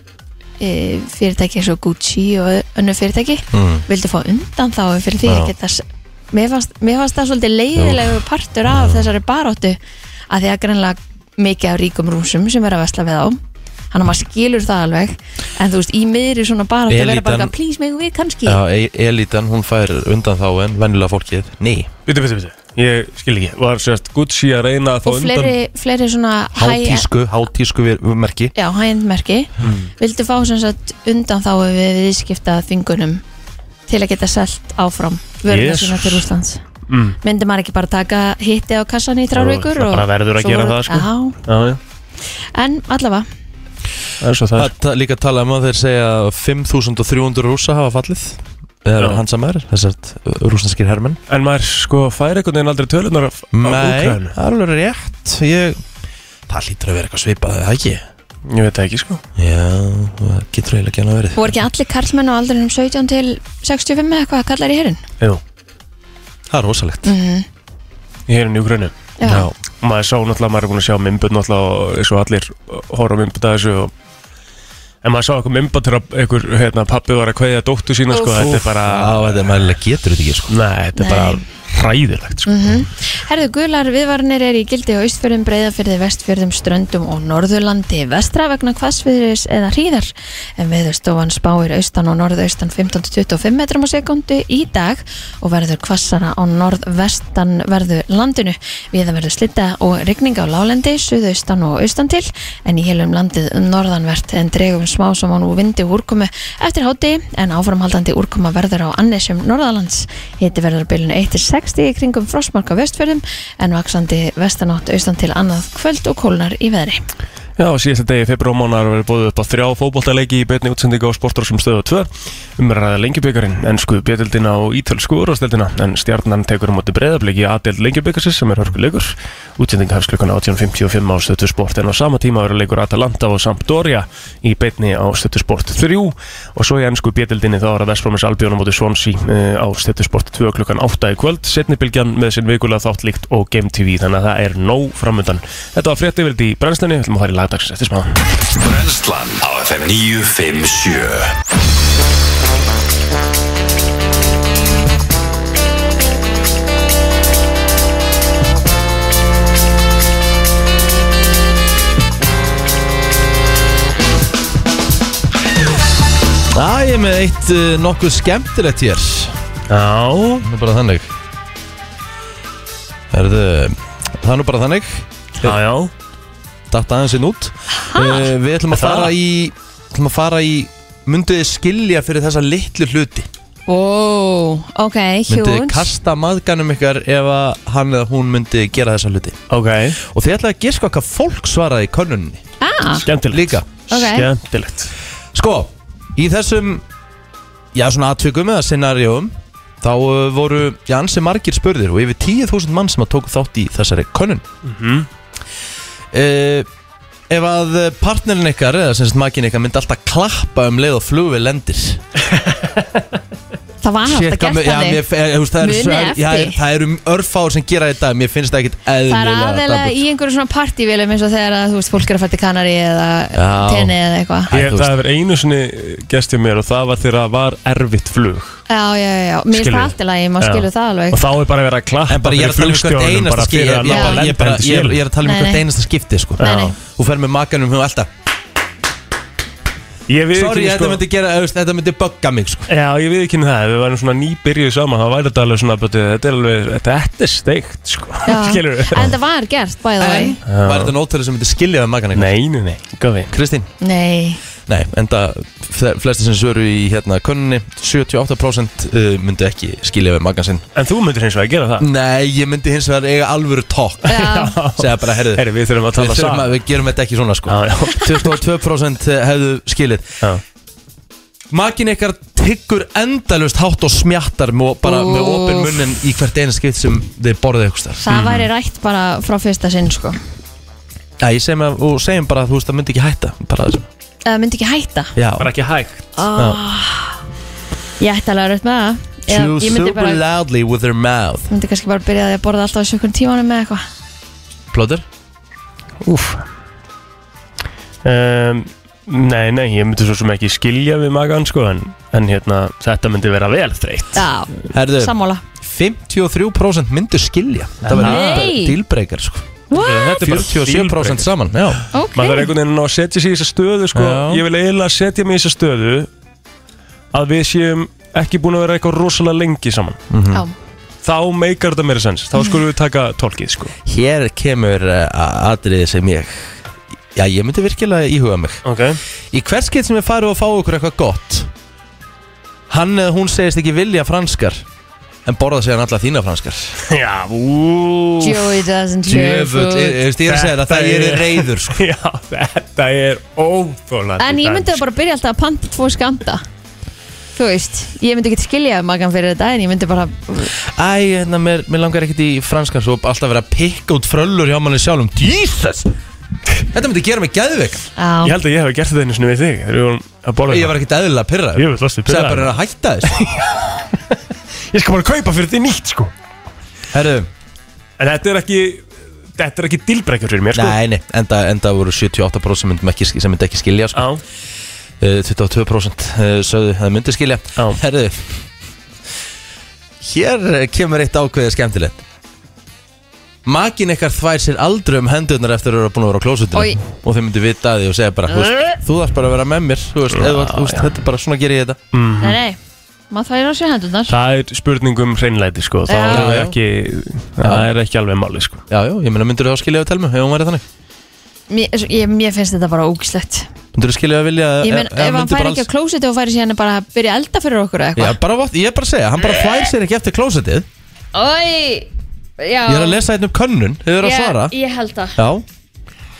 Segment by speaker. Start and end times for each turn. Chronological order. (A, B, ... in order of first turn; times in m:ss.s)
0:00.6-0:09.8 A
0:03.5-0:03.8 B
0:05.2-0:05.5 B
0:07.8-0:08.2 B
0:08.7-0:09.1 B
0:10.3-0:13.4 A
0:13.9-0:18.6 A
0:16.9-0:17.5 B
0:18.4-0:21.9 B
0:22.1-0:25.5 C
0:25.0-0:27.1 A
0:26.5-0:28.5 B
0:28.5-0:33.2 A
0:29.6-0:29.9 C
0:33.9-0:36.6 A
0:35.5-0:36.2 C
0:36.9-0:37.2 C
0:37.2-0:41.4 A
0:39.3-0:41.8 C
0:42.5-0:43.3 A
0:44.2-0:44.7 C
0:44.6-0:51.2 B
0:51.3-0:54.3 C
0:53.5-0:55.8 B
0:56.5-0:58.0 B
0:58.5-0:59.2 C
0:59.4-1:01.6 B
1:01.4-1:05.0 A
1:06.5-1:07.1 B
1:07.0-1:07.4 A
1:08.3-1:08.9 C
1:09.2-1:09.5 A
1:09.2-1:09.5 B
1:09.8-1:13.9 C
1:15.0-1:19.4 C
1:18.1-1:18.4 A
1:18.4-1:20.5 B
1:20.5-1:22.8 C
1:21.0-1:21.4 A
1:22.5-1:57.0 A
1:57.6-2:28.2 C
2:28.5-2:31.3 D
2:46.5-2:49.4 B
2:49.7-2:50.4 C
2:50.4-2:51.1 B
2:53.1-2:55.6 B
2:55.4-2:55.9 C
2:56.7-3:03.3 B
2:57.8-2:58.2 A
2:58.7-2:59.1 C
3:03.7-3:05.9 A
3:05.3-3:09.4 B
3:09.5-3:10.0 C
3:10.0-3:12.4 B
3:12.6-3:13.0 A
3:13.0-3:14.9 C
3:13.3-3:13.8 B
3:13.9-3:14.3 A
3:15.3-3:16.8 B
3:17.7-3:24.4 B
3:24.6-3:25.1 C
3:26.1-3:26.7 B
3:27.3-3:32.0 B
3:33.8-3:35.0 A
3:34.0-3:40.0 B
3:35.6-3:36.6 A
3:39.1-3:44.5 A
3:43.3-3:43.9 B
3:44.5-3:44.9 B
3:44.5-3:48.6 C
3:48.7-3:51.2 A
3:49.5-3:55.0 C
3:52.1-3:58.1 B
3:53.9-3:54.2 A
3:55.2-3:55.6 A
3:56.4-3:56.8 A
3:56.4-3:56.7 C
4:00.1-4:01.0 C
4:00.3-4:02.7 B
4:02.7-4:09.1 C
4:08.2-4:10.4 A
4:10.0-4:12.3 B
4:10.5-4:10.9 C
4:12.2-4:13.3 C
4:13.3-4:13.7 B
4:13.8-4:14.4 A
4:14.7-4:20.6 B
4:20.7-4:21.9 C
4:21.8-4:24.2 B
4:24.1-4:24.5 A
4:24.1-4:26.6 C
4:24.8-4:25.4 B
4:26.0-4:30.2 B
4:27.5-4:28.4 C
4:31.5-4:38.0 B
4:34.8-4:35.8 A
4:38.0-4:40.2 A
4:38.1-4:38.5 C
4:41.2-4:43.9 B
4:44.2-4:45.1 A
4:45.2-4:45.5 B
4:45.4-4:46.0 C
4:46.2-4:47.2 A
4:46.3-4:46.6 B
4:48.0-4:50.2 A
4:49.3-4:51.5 B
4:51.5-4:53.8 A
4:54.7-4:55.0 B
4:56.0-4:56.4 C
4:58.0-5:04.2 C
5:04.2-5:05.4 A
5:04.7-5:09.6 B
5:07.8-5:08.5 C
5:07.9-5:08.8 A
5:09.7-5:10.2 A
5:09.7-5:11.3 C
5:10.1-5:11.8 B
5:11.9-5:12.5 A
5:12.1-5:16.1 C
5:13.9-5:14.4 B
5:17.1-5:20.0 C
5:20.1-5:20.4 B
5:21.0-5:23.7 C
5:23.8-5:26.6 B
5:27.1-5:28.6 B
5:28.6-5:29.0 C
5:29.3-5:31.5 B
5:32.7-5:34.6 B
5:35.2-5:36.8 B
5:36.8-5:38.6 C
5:38.2-5:40.0 A
5:39.0-5:41.8 B
5:40.3-5:44.8 C
5:44.2-5:46.4 A
5:47.3-5:50.5 A
5:50.6-5:55.9 B
5:56.7-5:57.8 B
5:58.0-5:58.3 A
5:58.2-6:00.8 C
6:00.5-6:03.3 B
6:01.5-6:02.5 C
6:03.1-6:04.0 C
6:04.7-6:06.1 C
6:06.9-6:07.3 B
6:08.0-6:08.8 C
6:09.4-6:10.8 C
6:10.5-6:14.1 B
6:13.9-6:14.2 C
6:15.0-6:18.4 B
6:20.0-6:22.0 B
6:23.4-6:31.8 B
6:26.5-6:26.8 A
6:30.1-6:30.9 C
6:31.9-6:32.4 C
6:32.2-6:32.6 A
6:33.1-6:34.1 A
6:34.1-6:38.6 C
6:35.9-6:36.3 A
6:36.0-6:36.6 B
6:37.4-6:37.7 B
6:38.7-6:40.6 B
6:41.5-6:43.5 A
6:43.7-6:45.7 B
6:44.6-6:48.2 A
6:48.0-6:50.7 B
6:51.1-6:51.9 A
6:52.4-6:53.0 A
6:52.7-6:54.5 B
6:54.0-6:55.2 A
6:55.2-6:55.4 B